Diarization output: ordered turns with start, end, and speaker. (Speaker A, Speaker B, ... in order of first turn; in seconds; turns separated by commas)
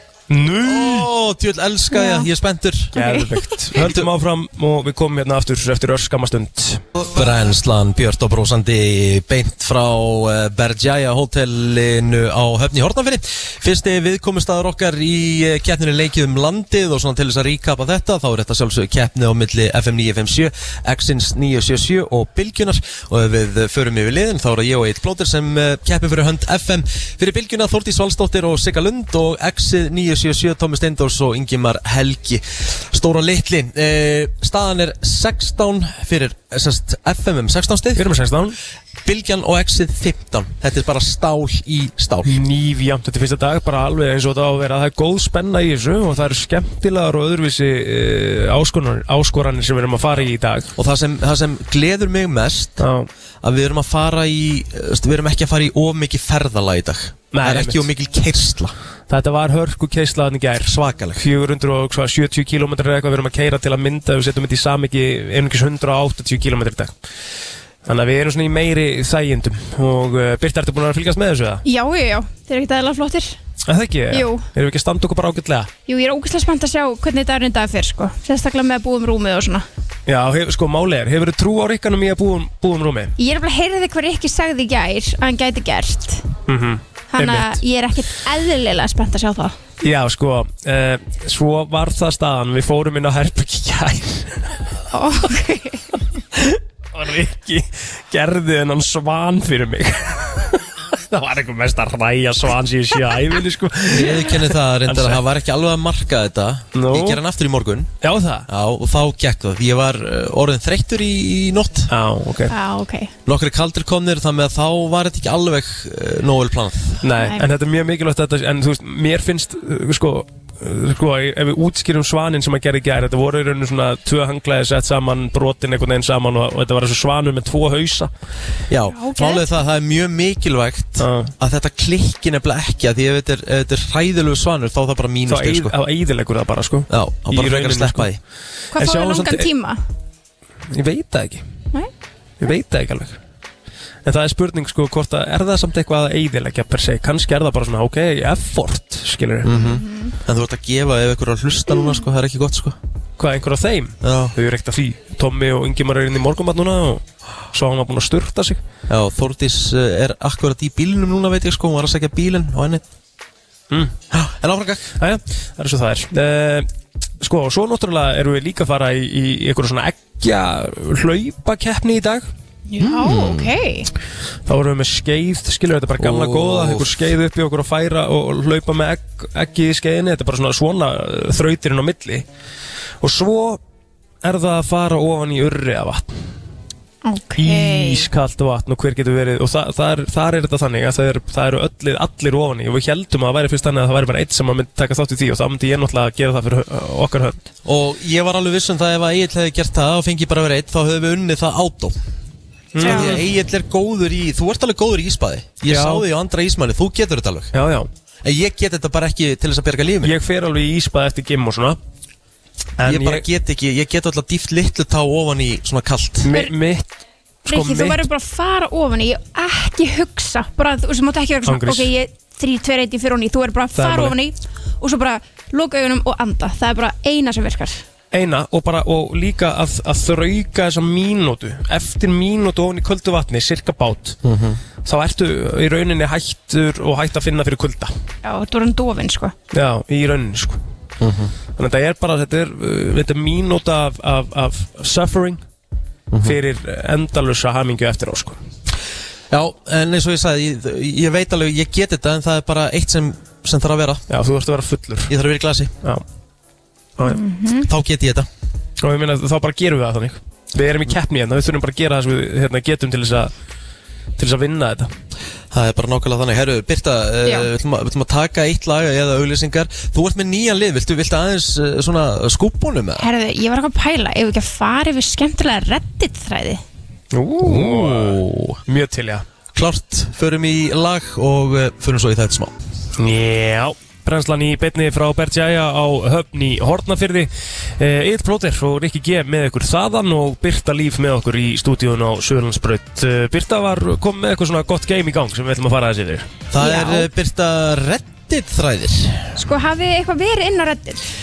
Speaker A: 0.3-1.1, Speaker B: 0.6-2.9, Speaker C: 1.9-2.3, Speaker C: 2.9-3.7, Speaker A: 2.9-6.8, Speaker B: 3.8-4.1, Speaker B: 7.0-38.1, Speaker A: 38.0-38.6, Speaker B: 39.0-42.3, Speaker A: 42.2-50.7, Speaker B: 50.8-52.9, Speaker A: 52.8-53.1, Speaker B: 53.4-58.7, Speaker A: 57.3-57.9, Speaker A: 59.1-66.9, Speaker B: 60.6-61.2, Speaker A: 67.8-71.6, Speaker C: 71.6-73.4, Speaker A: 73.6-75.7, Speaker C: 74.1-74.5, Speaker C: 75.9-79.6, Speaker A: 80.1-83.1, Speaker C: 83.2-86.2, Speaker A: 86.5-87.6, Speaker C: 87.1-89.6, Speaker A: 89.8-94.5, Speaker C: 94.9-95.8, Speaker A: 96.3-105.2, Speaker B: 103.9-107.9, Speaker A: 106.7-107.2, Speaker A: 108.0-108.5, Speaker B: 108.5-111.9, Speaker A: 111.9-112.5, Speaker C: 112.5-113.1, Speaker B: 113.2-117.0, Speaker A: 117.0-128.1, Speaker C: 117.1-117.5, Speaker B: 128.7-135.7, Speaker C: 128.9-129.5, Speaker A: 131.0-131.3, Speaker A: 135.3-138.1, Speaker B: 136.9-138.2, Speaker C: 138.7-139.8, Speaker A: 138.7-139.5, Speaker A: 140.7-141.4, Speaker A: 142.4-143.2, Speaker A: 144.0-149.5, Speaker B: 149.4-152.8, Speaker C: 149.5-150.1, Speaker A: 153.2-158.6, Speaker B: 154.0-154.3, Speaker B: 158.9-162.8, Speaker A: 163.7-163.9, Speaker B: 164.1-164.9, Speaker A: 165.0-166.7, Speaker A: 167.2-172.3, Speaker C: 172.7-173.9, Speaker B: 172.8-173.5, Speaker A: 174.4-182.2, Speaker B: 176.0-177.0, Speaker A: 183.0-183.6, Speaker A: 184.2-186.1, Speaker C: 187.0-188.1, Speaker A: 187.3-197.4, Speaker B: 197.6-202.0, Speaker A: 202.7-203.2, Speaker C: 202.8-203.2, Speaker B: 202.8-207.5, Speaker A: 205.7-206.0, Speaker A: 207.5-207.9, Speaker B: 208.2-210.1, Speaker A: 210.0-211.8, Speaker A: 212.8-213.2, Speaker B: 212.8-216.3, Speaker A: 216.2-216.9, Speaker A: 217.4-218.1, Speaker C: 217.5-227.8, Speaker A: 221.4-221.9, Speaker A: 223.7-224.1, Speaker A: 228.1-234.2, Speaker B: 234.2-234.6, Speaker A: 234.8-237.9, Speaker C: 238.2-239.3, Speaker A: 239.5-240.6, Speaker B: 241.0-241.3, Speaker A: 241.6-245.4, Speaker B: 246.1-246.4, Speaker A: 246.2-248.4, Speaker B: 249.3-254.0, Speaker A: 254.1-255.1, Speaker B: 255.1-255.7, Speaker C: 257.0-257.7, Speaker B: 257.6-258.3, Speaker A: 258.8-263.3, Speaker A: 264.2-264.9, Speaker B: 265.5-273.1, Speaker C: 267.2-267.5, Speaker C: 273.0-276.6, Speaker A: 277.1-279.2, Speaker B: 277.4-278.6, Speaker B: 279.5-282.5, Speaker A: 283.0-296.3, Speaker B: 296.5-299.3, Speaker C: 296.6-297.1, Speaker C: 299.4-301.0